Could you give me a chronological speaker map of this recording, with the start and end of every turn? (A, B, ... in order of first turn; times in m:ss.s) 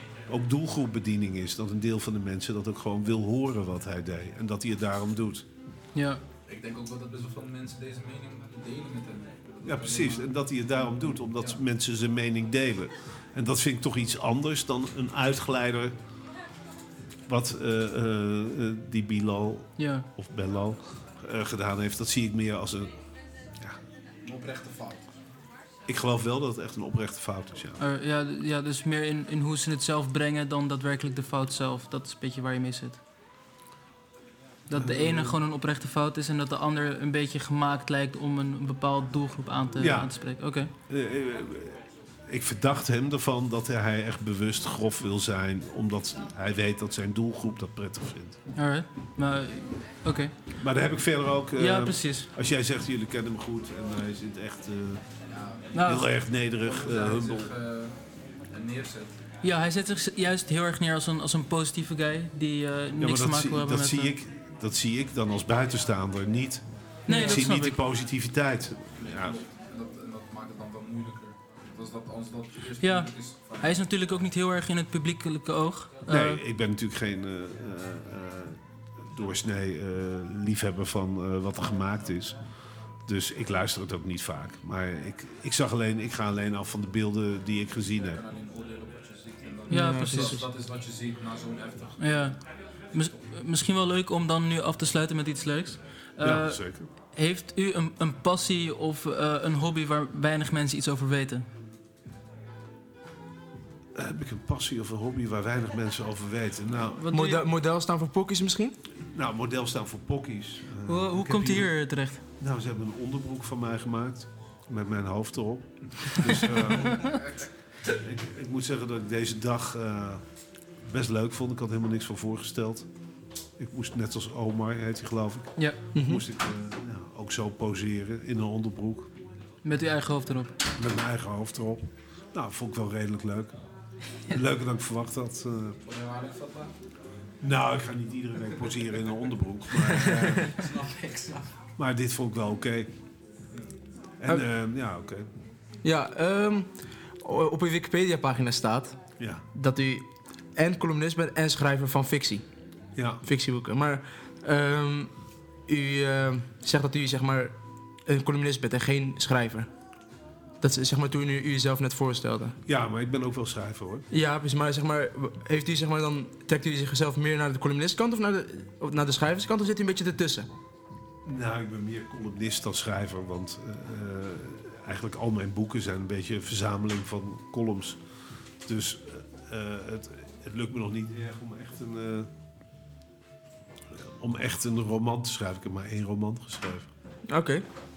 0:00.3-0:05.4 A
0:05.9-0:06.2 B
0:06.4-0:10.3 C
0:09.6-0:16.0 A
0:11.3-0:11.6 C
0:17.3-0:22.9 A
0:19.8-0:20.0 B
0:24.2-0:25.1 C
0:25.9-0:27.8 A
0:27.8-0:33.0 B
0:34.7-0:35.4 A
0:34.7-0:40.7 B
0:39.8-0:40.2 A
0:40.9-0:48.4 A
0:48.5-0:50.3 B
0:50.6-0:55.0 A
0:51.6-0:52.3 B
0:55.2-0:55.7 C
0:55.7-0:56.1 B
0:55.8-0:57.5 A
0:56.6-0:59.2 C
0:59.4-1:04.2 B
1:03.0-1:09.4 A
1:07.1-1:07.8 B
1:09.0-1:13.8 C
1:12.8-1:16.4 B
1:16.1-1:18.6 A
1:19.1-1:22.4 A
1:23.0-1:28.2 A
1:28.1-1:32.0 C
1:29.7-1:30.4 B
1:29.7-1:30.4 D
1:32.0-1:32.4 B
1:32.9-1:36.6 B
1:36.2-1:36.9 A
1:37.1-1:41.5 B
1:43.9-1:47.1 A
1:46.9-1:47.4 B
1:47.1-1:48.8 D
1:49.1-1:51.7 A
1:50.8-1:52.2 B
1:52.4-2:00.2 A
2:00.9-2:02.9 A
2:03.6-2:09.1 A
2:05.9-2:06.2 D
2:09.6-2:10.5 B
2:10.8-2:13.5 A
2:14.3-2:15.8 A
2:15.8-2:16.7 C
2:17.4-2:20.7 A
2:19.8-2:20.5 D
2:20.5-2:21.5 C
2:21.8-2:22.9 A
2:24.2-2:25.3 A
2:25.8-2:26.7 D
2:27.2-2:29.0 D
2:29.2-2:29.4 A
2:29.5-2:32.4 D
2:33.0-2:33.2 A
2:33.2-2:35.1 D
2:35.7-2:37.5 D
2:38.0-2:39.7 D
2:40.6-2:42.6 D
2:42.6-2:44.0 A
2:44.1-2:50.5 D
2:51.2-2:58.0 A
2:58.6-3:02.3 A
3:04.0-3:06.9 A
3:07.3-3:07.6 D